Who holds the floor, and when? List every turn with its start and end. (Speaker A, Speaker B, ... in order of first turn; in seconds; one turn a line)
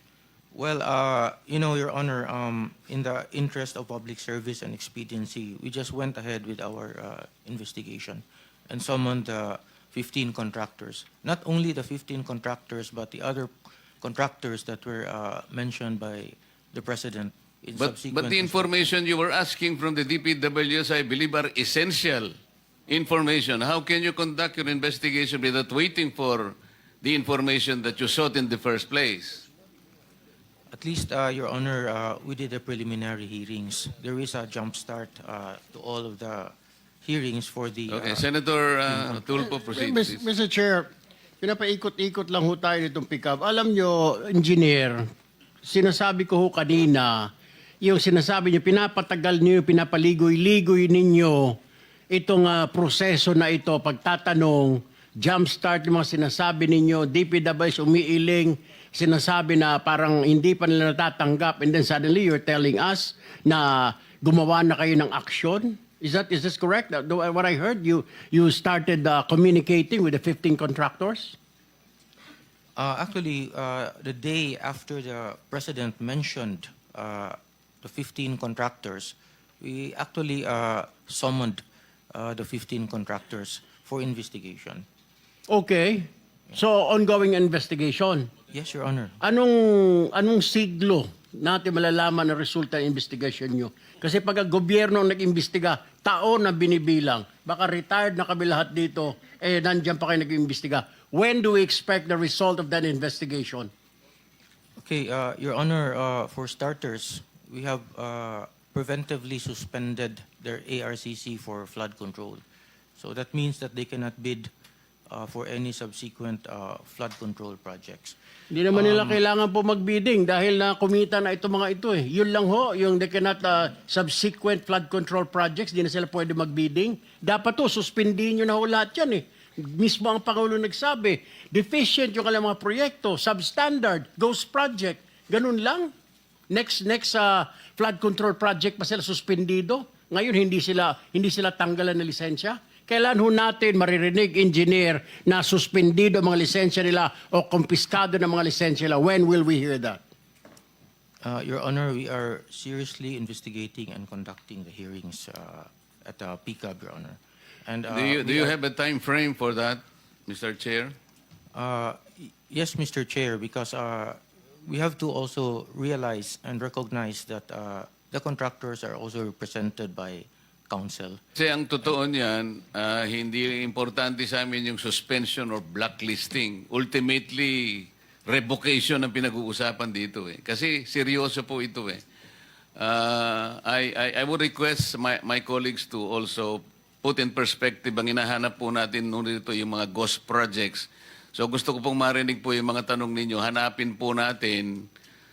Speaker A: 0.5-13.5
Speaker A: 14.0-18.9
Speaker B: 17.8-22.3
Speaker B: 22.9-29.4
Speaker A: 30.7-38.3
Speaker B: 37.9-40.2
Speaker A: 38.9-39.2
Speaker C: 39.7-40.9
Speaker C: 41.4-45.0
Speaker C: 45.6-47.3
Speaker C: 47.8-51.6
Speaker C: 52.1-71.4
Speaker A: 72.8-84.8
Speaker C: 85.5-88.3
Speaker A: 88.5-89.2
Speaker C: 89.2-103.7
Speaker A: 104.8-112.4
Speaker A: 113.0-114.5
Speaker A: 115.1-118.2
Speaker C: 118.5-135.9
Speaker A: 118.7-119.2
Speaker C: 136.5-150.0
Speaker A: 151.2-158.5
Speaker B: 157.9-160.9
Speaker A: 161.5-171.2
Speaker B: 171.3-182.0
Speaker B: 182.8-194.8